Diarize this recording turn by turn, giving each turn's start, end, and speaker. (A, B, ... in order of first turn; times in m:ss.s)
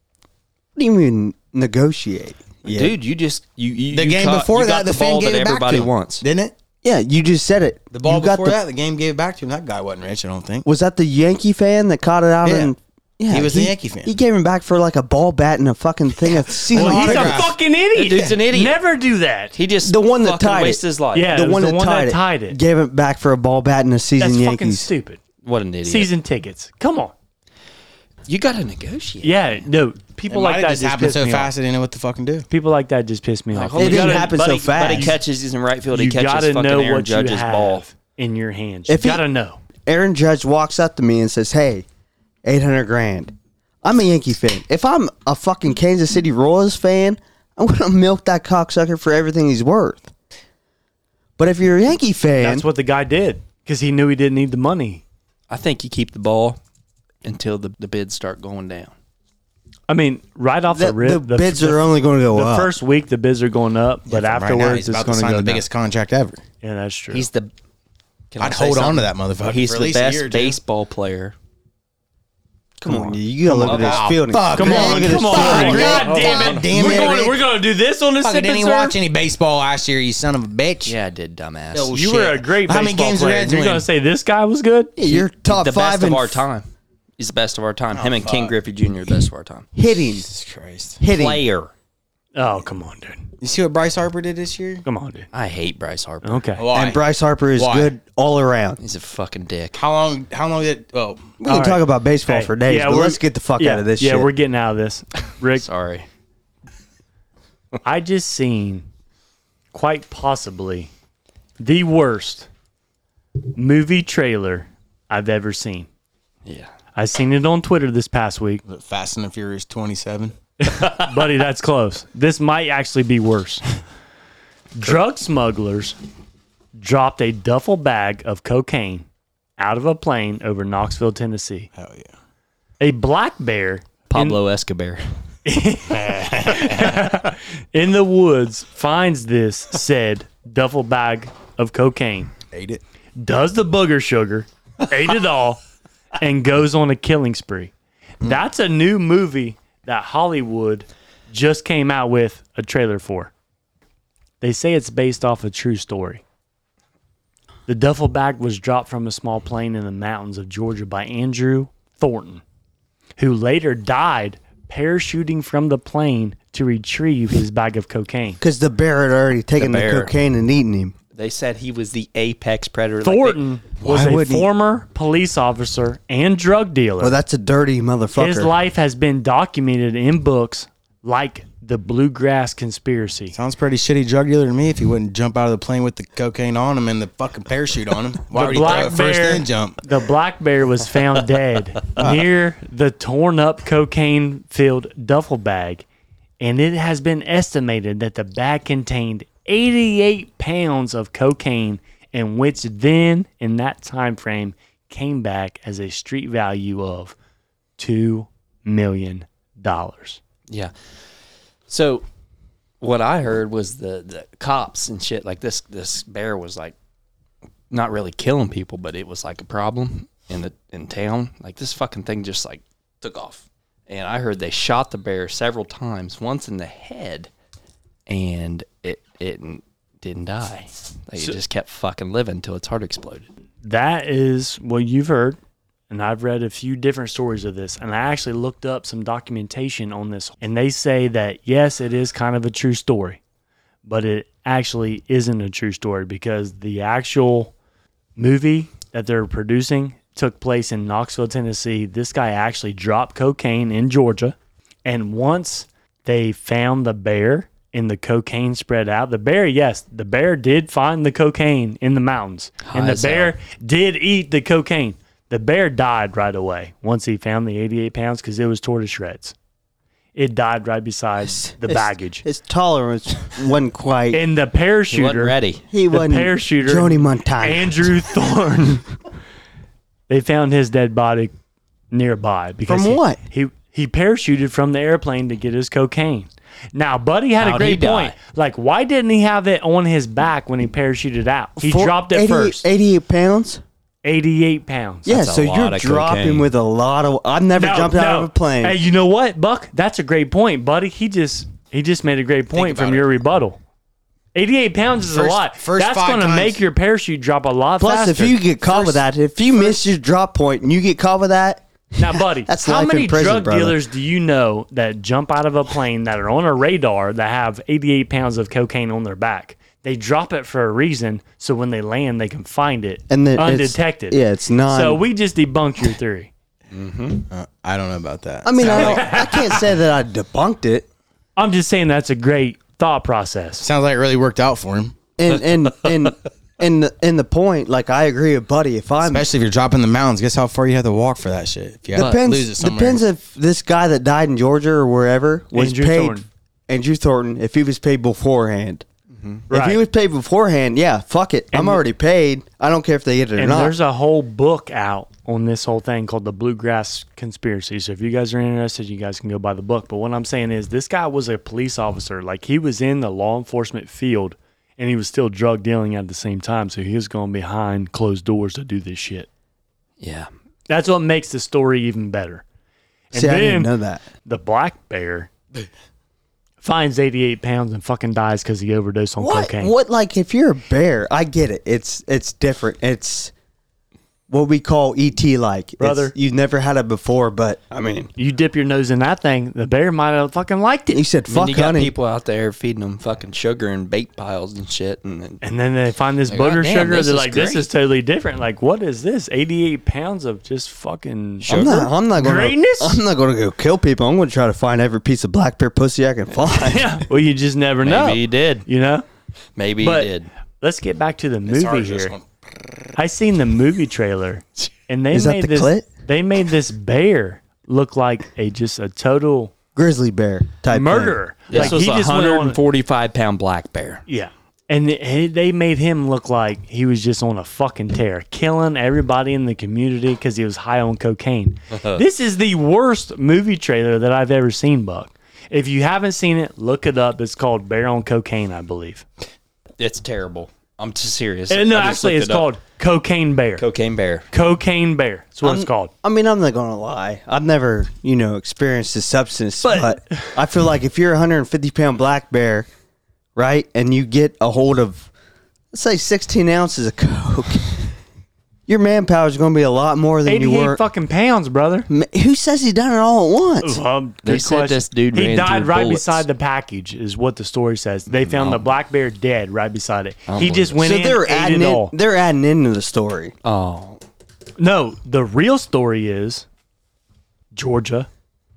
0:00.8-0:02.9 A
0:02.6-0:06.2 B
0:03.9-0:06.5 C
0:06.8-0:08.6 A
0:07.9-0:10.6 C
0:10.6-0:17.4 A
0:12.4-0:12.7 C
0:13.3-0:14.1 C
0:16.6-0:17.5 C
0:16.7-0:19.6 D
0:17.9-0:18.8 B
0:19.5-0:21.3 B
0:19.8-0:24.9 A
0:21.1-0:22.6 D
0:24.2-0:25.2 D
0:25.4-0:26.1 B
0:25.8-0:27.1 D
0:28.3-0:29.6 B
0:29.2-0:31.5 D
0:30.3-0:32.4 C
0:32.5-0:35.2 D
0:33.5-0:37.8 B
0:33.8-0:35.2 A
0:35.9-0:39.6 D
0:38.9-0:39.2 A
0:39.8-0:41.8 A
0:42.4-0:50.1 A
0:51.4-0:52.6 A
0:52.4-0:55.0 D
0:55.5-0:56.6 B
0:57.2-0:58.9 B
0:59.9-1:05.6 D
1:00.7-1:02.7 A
1:04.1-1:06.4 C
1:06.6-1:07.3 D
1:07.1-1:07.5 B
1:08.3-1:11.3 B
1:08.4-1:10.6 C
1:12.8-1:17.2 A
1:12.9-1:17.4 C
1:13.6-1:14.2 B
1:14.5-1:19.0 D
1:15.2-1:16.7 B
1:18.2-1:20.9 C
1:20.8-1:22.0 B
1:21.7-1:23.8 C
1:21.9-1:24.9 D
1:25.0-1:26.4 A
1:25.0-1:26.7 B
1:27.2-1:29.6 B
1:27.9-1:28.5 C
1:29.7-1:30.2 A
1:30.1-1:31.0 C
1:31.0-1:31.4 A
1:31.1-1:31.7 B
1:32.3-1:33.3 D
1:33.4-1:34.8 C
1:34.8-1:35.3 D
1:35.3-1:36.4 B
1:36.2-1:36.6 D
1:36.6-1:37.0 C
1:36.7-1:38.8 A
1:37.6-1:37.9 C
1:38.8-1:39.8 B
1:39.7-1:41.3 C
1:41.4-1:44.3 A
1:41.5-1:45.6 D
1:45.6-1:46.1 B
1:47.8-1:48.8 D
1:49.7-1:50.9 D
1:51.6-1:52.5 D
1:53.5-1:55.9 D
1:56.4-1:56.7 B
1:56.9-1:58.6 D
1:58.6-2:00.3 C
2:00.6-2:03.6 D
2:04.8-2:06.0 D
2:06.8-2:09.1 D
2:09.6-2:11.7 D
2:11.7-2:12.1 C
2:12.8-2:14.4 D
2:14.1-2:15.0 B
2:15.4-2:22.3 D
2:15.9-2:17.0 C
2:22.5-2:22.8 C
2:23.2-2:25.6 D
2:26.2-2:33.3 D
2:34.4-2:36.2 D
2:37.7-2:42.4 D
2:43.2-2:48.4 D
2:48.4-2:50.9 A
2:49.6-2:50.1 B
2:51.1-2:53.4 B
2:53.0-2:57.2 D
2:53.8-2:54.5 C
2:57.0-2:58.5 A
2:58.2-3:03.3 D
3:03.3-3:09.8 C
3:08.3-3:15.8 D
3:16.4-3:27.1 D
3:27.8-3:30.2 D
3:31.7-3:32.0 B
3:32.8-3:36.7 B
3:37.7-3:47.3 B
3:48.1-3:53.3 B
3:53.6-3:55.4 D
3:55.9-4:03.2 D
4:03.8-4:07.5 D
4:08.2-4:29.3 D
4:22.6-4:23.3 B
4:30.1-4:32.2 D
4:31.2-4:34.2 A
4:34.1-4:35.4 D
4:34.9-4:35.6 B
4:35.7-4:37.9 A
4:35.9-4:38.8 D
4:40.1-4:41.3 D
4:41.9-4:52.6 D
4:42.7-4:43.2 A
4:47.4-4:48.1 B
4:51.6-4:53.6 A
4:54.0-4:55.1 D
4:55.0-4:58.7 A
4:55.1-4:56.5 B
4:57.5-5:03.6 D
5:02.6-5:03.1 B
5:04.3-5:09.0 D
5:05.1-5:06.6 C
5:07.8-5:13.8 A
5:12.0-5:26.3 D
5:23.1-5:25.0 A
5:26.7-5:27.2 B
5:27.3-5:29.2 C
5:28.4-5:30.8 A
5:28.6-5:29.7 D
5:31.4-5:33.6 D
5:33.6-5:35.0 C
5:35.2-5:39.2 A
5:39.0-5:43.0 C
5:41.9-5:48.8 A
5:45.5-5:46.3 D
5:49.1-5:49.4 B
5:49.5-5:49.8 D
5:49.5-5:53.7 A
5:51.5-5:51.8 D
5:53.4-6:09.3 D
6:10.0-6:10.3 B
6:10.7-6:12.4 D
6:13.1-6:13.7 D
6:13.1-6:14.0 A
6:14.2-6:15.3 D
6:16.6-6:19.7 D
6:19.2-6:23.3 A
6:24.3-6:28.1 A
6:25.8-6:26.1 D
6:28.2-6:31.0 D
6:30.9-6:31.9 A
6:31.3-6:35.4 B
6:35.4-6:43.0 D
6:36.3-6:37.6 B
6:41.4-6:41.9 B
6:41.5-6:47.0 A
6:46.5-6:49.0 D
6:47.8-6:48.6 B
6:49.6-6:50.3 B
6:49.8-6:52.1 D
6:51.4-6:52.2 C
6:53.0-6:59.5 D
6:55.1-6:55.9 A
6:59.7-7:01.8 A
7:00.7-7:02.6 D
7:01.5-7:04.0 B
7:04.1-7:19.0 D
7:11.7-7:12.0 B
7:19.8-7:22.5 B
7:21.5-7:23.6 D
7:23.6-7:24.3 B
7:24.3-7:25.9 D
7:25.4-7:32.7 A
7:29.6-7:30.3 D
7:33.4-7:35.1 A
7:35.7-7:37.8 A
7:38.7-7:40.8 A
7:40.2-7:41.9 D
7:41.9-7:43.8 A
7:43.6-7:51.9 D
7:44.2-7:46.2 B
7:48.1-7:48.7 B
7:50.3-7:50.8 B
7:50.8-7:53.3 A
7:53.4-7:54.0 B
7:54.6-7:56.4 D
7:57.5-7:58.1 D